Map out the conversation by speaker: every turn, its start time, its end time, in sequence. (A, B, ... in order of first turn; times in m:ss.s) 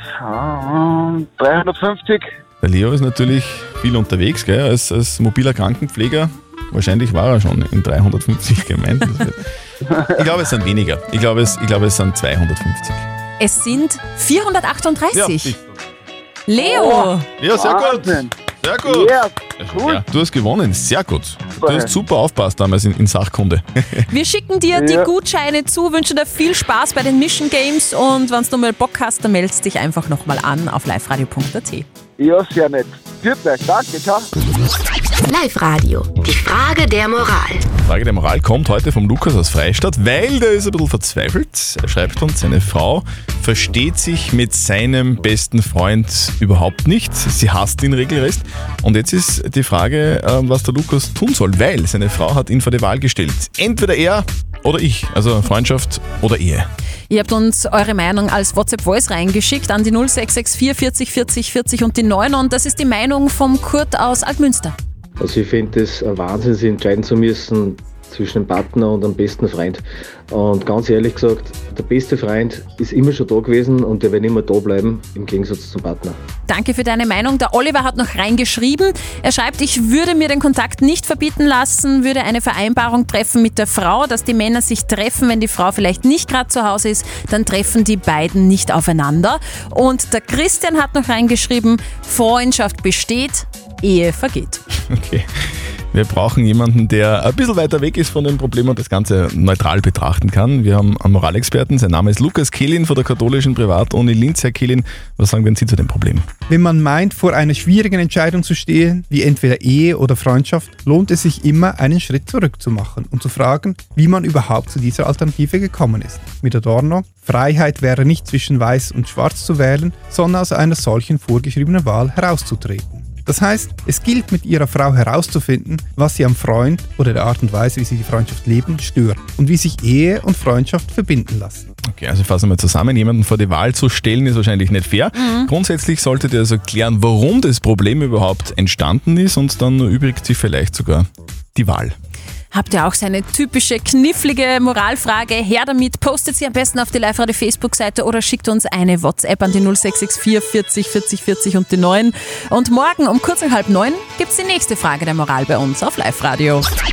0:00.2-0:02.3 A
0:02.6-0:09.4 B
0:10.2-0:13.1 B
0:13.4-0:15.5 C
0:15.1-0:15.6 B
0:16.5-0:17.3 C
0:16.5-0:20.0 A
0:17.4-0:24.1 B
0:21.6-0:21.9 A
0:24.1-0:31.9 C
0:24.7-0:25.1 A
0:32.2-0:34.3 A
0:35.3-0:37.6 D
0:37.9-0:56.7 B
0:57.1-1:04.8 C
1:05.2-1:16.2 E
1:16.5-1:34.6 C
1:34.9-1:35.3 B
1:35.9-1:46.3 B
1:46.5-2:11.7 F
2:11.9-2:22.0 B
2:15.2-2:15.5 C
2:22.5-2:36.7 C